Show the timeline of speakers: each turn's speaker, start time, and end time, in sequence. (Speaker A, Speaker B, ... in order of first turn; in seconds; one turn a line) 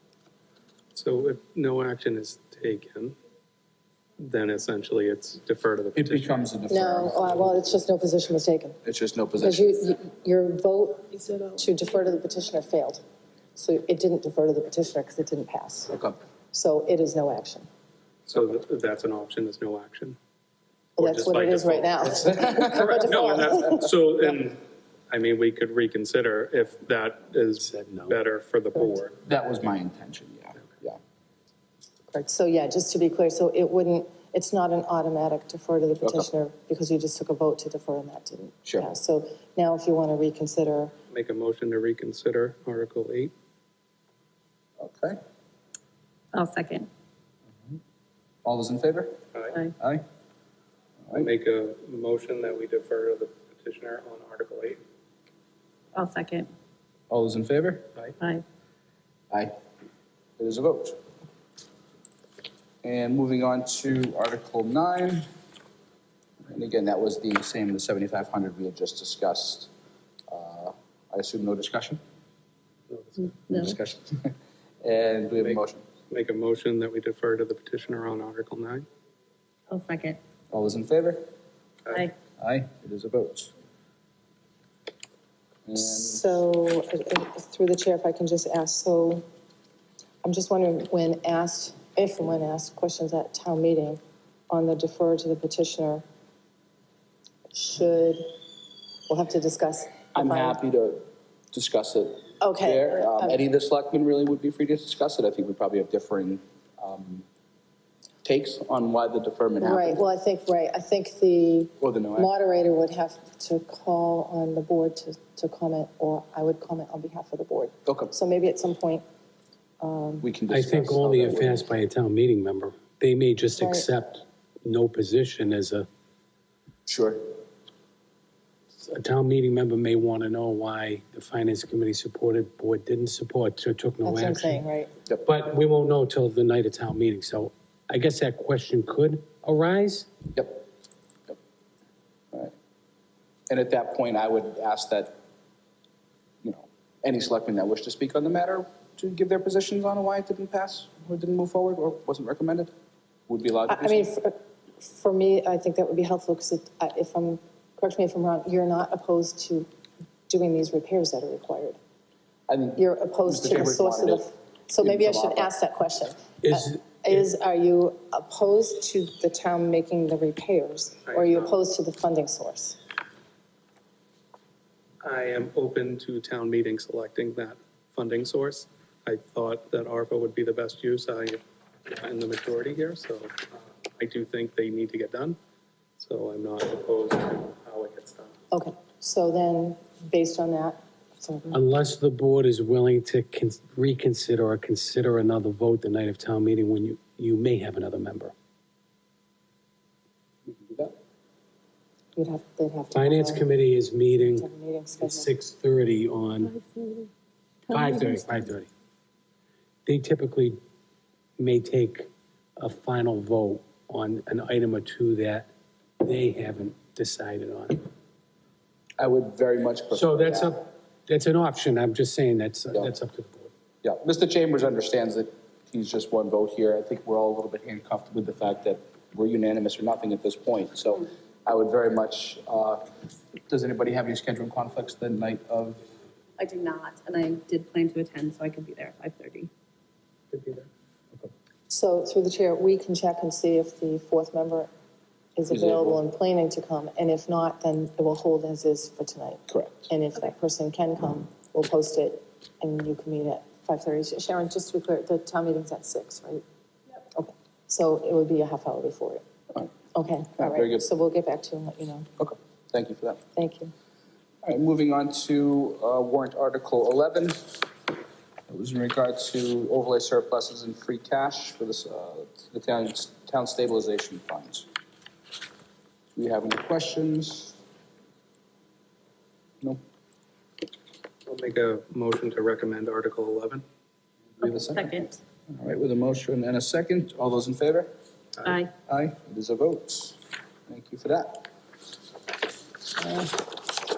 Speaker A: 0.9-3.1
Speaker A: 4.2-6.3
Speaker B: 5.9-7.7
Speaker C: 6.7-8.8
Speaker B: 8.8-9.8
Speaker C: 9.4-13.0
Speaker C: 13.6-15.9
Speaker B: 15.9-16.2
Speaker C: 16.5-17.7
Speaker A: 18.3-20.2
Speaker A: 21.0-29.1
Speaker C: 21.0-24.3
Speaker B: 22.3-22.8
Speaker D: 27.6-28.2
Speaker C: 28.7-29.0
Speaker B: 29.2-31.0
Speaker C: 32.1-40.9
Speaker B: 36.0-36.3
Speaker A: 41.1-43.3
Speaker B: 44.8-45.2
Speaker E: 46.3-46.9
Speaker B: 48.4-49.2
Speaker A: 49.3-49.6
Speaker B: 49.8-50.0
Speaker A: 51.1-54.8
Speaker E: 55.9-56.5
Speaker B: 57.1-57.9
Speaker B: 60.4-61.0
Speaker B: 62.8-65.2
Speaker B: 66.4-69.7
Speaker B: 70.3-72.0
Speaker A: 72.9-73.2
Speaker E: 73.2-73.8
Speaker B: 73.5-75.8
Speaker A: 75.4-78.8
Speaker E: 79.7-80.2
Speaker B: 80.5-81.2
Speaker B: 82.4-83.5
Speaker B: 85.7-86.4
Speaker C: 85.8-89.2
Speaker C: 90.2-96.0
Speaker C: 97.5-98.3
Speaker C: 99.1-100.6
Speaker B: 100.1-107.2
Speaker C: 102.4-103.4
Speaker B: 108.2-110.0
Speaker C: 109.6-119.0
Speaker B: 111.8-112.3
Speaker B: 117.8-118.1
Speaker C: 119.8-120.3
Speaker B: 120.2-121.6
Speaker D: 120.5-125.9
Speaker C: 123.6-123.9
Speaker B: 126.9-127.2
Speaker D: 128.8-134.7
Speaker C: 134.0-134.9
Speaker D: 135.2-140.1
Speaker B: 140.3-140.6
Speaker B: 143.5-145.2
Speaker B: 146.4-152.7
Speaker B: 153.3-154.2
Speaker C: 153.7-159.7
Speaker C: 160.3-161.8
Speaker B: 162.5-164.3
Speaker C: 162.8-172.8
Speaker B: 164.8-165.5
Speaker D: 166.4-166.9
Speaker A: 171.1-171.5
Speaker A: 175.0-185.4
Speaker A: 186.0-188.3
Speaker C: 188.5-191.6
Speaker D: 191.5-198.3
Speaker B: 200.5-200.9
Speaker C: 202.1-203.5
Speaker D: 202.9-204.5
Speaker C: 204.3-205.3
Speaker D: 205.0-206.6
Speaker E: 206.6-207.1
Speaker D: 207.7-208.7
Speaker E: 207.8-208.2
Speaker D: 209.8-210.6
Speaker D: 211.4-215.5
Speaker D: 216.0-217.8
Speaker B: 219.0-220.5
Speaker D: 219.9-223.5
Speaker B: 223.8-232.8
Speaker B: 233.5-235.8
Speaker E: 236.4-239.5
Speaker A: 240.3-240.7
Speaker C: 241.7-244.7
Speaker C: 245.3-256.4
Speaker B: 245.5-246.0
Speaker B: 249.5-249.9
Speaker C: 257.1-259.2
Speaker C: 259.9-262.1
Speaker B: 260.4-260.8
Speaker B: 262.2-263.2
Speaker C: 263.3-263.7
Speaker B: 264.4-267.6
Speaker B: 268.5-274.7
Speaker B: 276.1-277.6
Speaker A: 281.3-283.6
Speaker B: 284.4-287.9
Speaker E: 284.4-285.2
Speaker E: 288.4-288.7
Speaker B: 288.8-291.5
Speaker B: 292.9-293.3